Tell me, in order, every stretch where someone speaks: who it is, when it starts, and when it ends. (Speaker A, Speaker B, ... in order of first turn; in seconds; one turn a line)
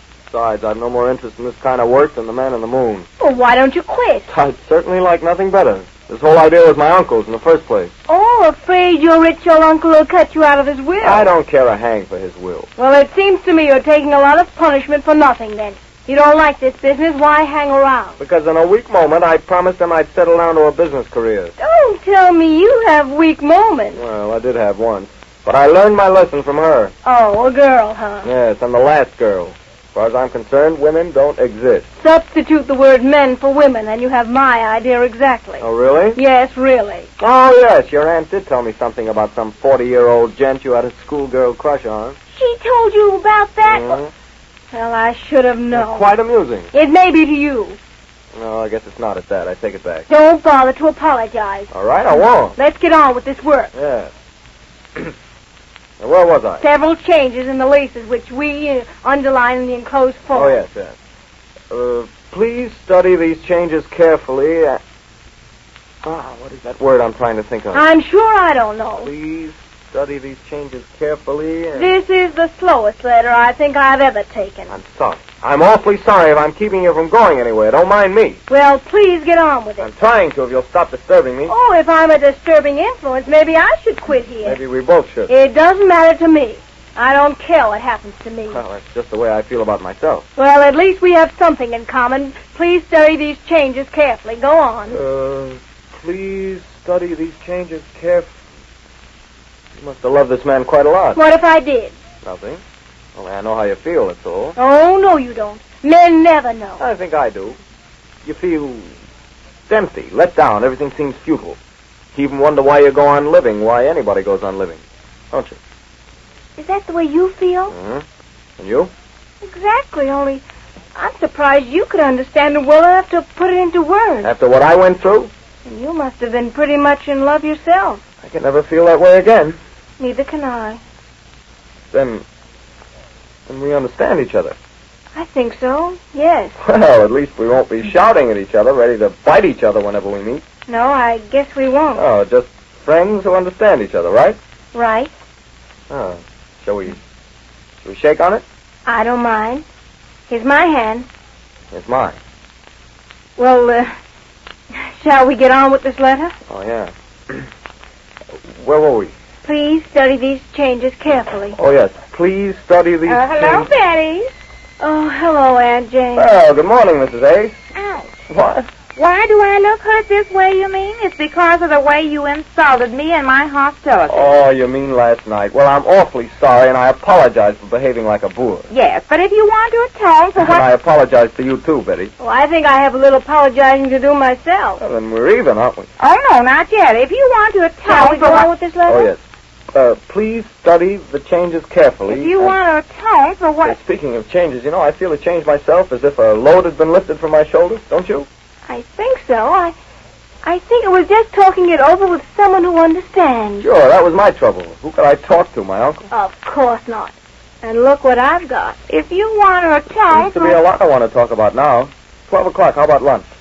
Speaker A: 0.3-3.1
Speaker B: 3.2-4.3
Speaker A: 4.3-7.9
Speaker B: 8.1-11.3
Speaker A: 11.0-12.7
Speaker B: 12.8-18.2
Speaker A: 18.2-21.5
Speaker B: 21.6-24.0
Speaker A: 23.9-26.9
Speaker B: 27.0-28.3
Speaker A: 28.2-31.9
Speaker B: 32.0-35.6
Speaker A: 35.6-36.2
Speaker B: 36.1-37.1
Speaker A: 37.2-42.1
Speaker B: 42.3-43.9
Speaker A: 43.6-44.1
Speaker B: 44.7-46.0
Speaker A: 45.7-46.7
Speaker B: 46.7-47.8
Speaker A: 48.3-50.1
Speaker B: 50.1-51.7
Speaker A: 51.7-52.5
Speaker B: 52.5-53.7
Speaker A: 53.7-54.1
Speaker A: 56.0-56.6
Speaker B: 56.6-60.5
Speaker A: 60.3-60.9
Speaker A: 61.7-64.8
Speaker A: 66.0-67.8
Speaker B: 67.7-69.1
Speaker A: 69.0-71.9
Speaker B: 71.8-74.7
Speaker A: 74.7-78.4
Speaker B: 78.5-79.8
Speaker A: 79.8-81.5
Speaker B: 81.5-84.5
Speaker A: 84.4-85.3
Speaker B: 85.3-88.5
Speaker A: 88.5-90.2
Speaker B: 90.4-94.9
Speaker A: 94.9-98.3
Speaker A: 99.8-101.2
Speaker B: 101.2-101.9
Speaker A: 102.2-102.6
Speaker A: 103.2-104.5
Speaker B: 104.6-106.8
Speaker A: 106.8-107.6
Speaker A: 108.2-108.9
Speaker A: 109.7-111.6
Speaker A: 112.1-114.8
Speaker A: 115.3-115.6
Speaker B: 116.6-117.7
Speaker A: 117.7-118.0
Speaker A: 118.6-118.9
Speaker B: 119.4-120.4
Speaker B: 121.0-124.3
Speaker A: 124.2-125.3
Speaker B: 125.7-128.0
Speaker A: 128.2-129.6
Speaker B: 130.0-130.8
Speaker A: 131.9-132.2
Speaker A: 133.5-134.6
Speaker B: 135.2-136.5
Speaker A: 136.6-140.4
Speaker B: 140.7-142.0
Speaker A: 141.9-144.4
Speaker B: 144.7-145.1
Speaker A: 145.9-147.0
Speaker A: 147.8-148.4
Speaker B: 148.9-149.6
Speaker B: 150.3-151.1
Speaker A: 151.7-152.2
Speaker B: 153.4-153.9
Speaker B: 155.0-156.3
Speaker A: 156.5-157.4
Speaker A: 158.4-159.1
Speaker B: 159.4-161.6
Speaker A: 161.6-163.7
Speaker C: 163.1-164.3
Speaker B: 164.8-166.3
Speaker A: 166.1-167.6
Speaker C: 167.8-168.1
Speaker A: 168.3-168.7
Speaker C: 168.9-174.4
Speaker A: 174.1-178.7
Speaker C: 178.7-180.7
Speaker A: 180.4-182.1
Speaker B: 182.2-184.8
Speaker A: 184.8-185.9
Speaker C: 186.0-188.5
Speaker B: 187.9-189.0
Speaker A: 188.9-189.2
Speaker A: 189.7-192.6
Speaker C: 192.1-193.8
Speaker A: 193.6-198.3
Speaker B: 198.7-199.7
Speaker B: 200.4-203.6
Speaker A: 203.6-206.0
Speaker B: 206.1-207.1
Speaker B: 207.6-208.7
Speaker C: 208.9-210.6
Speaker A: 210.1-213.3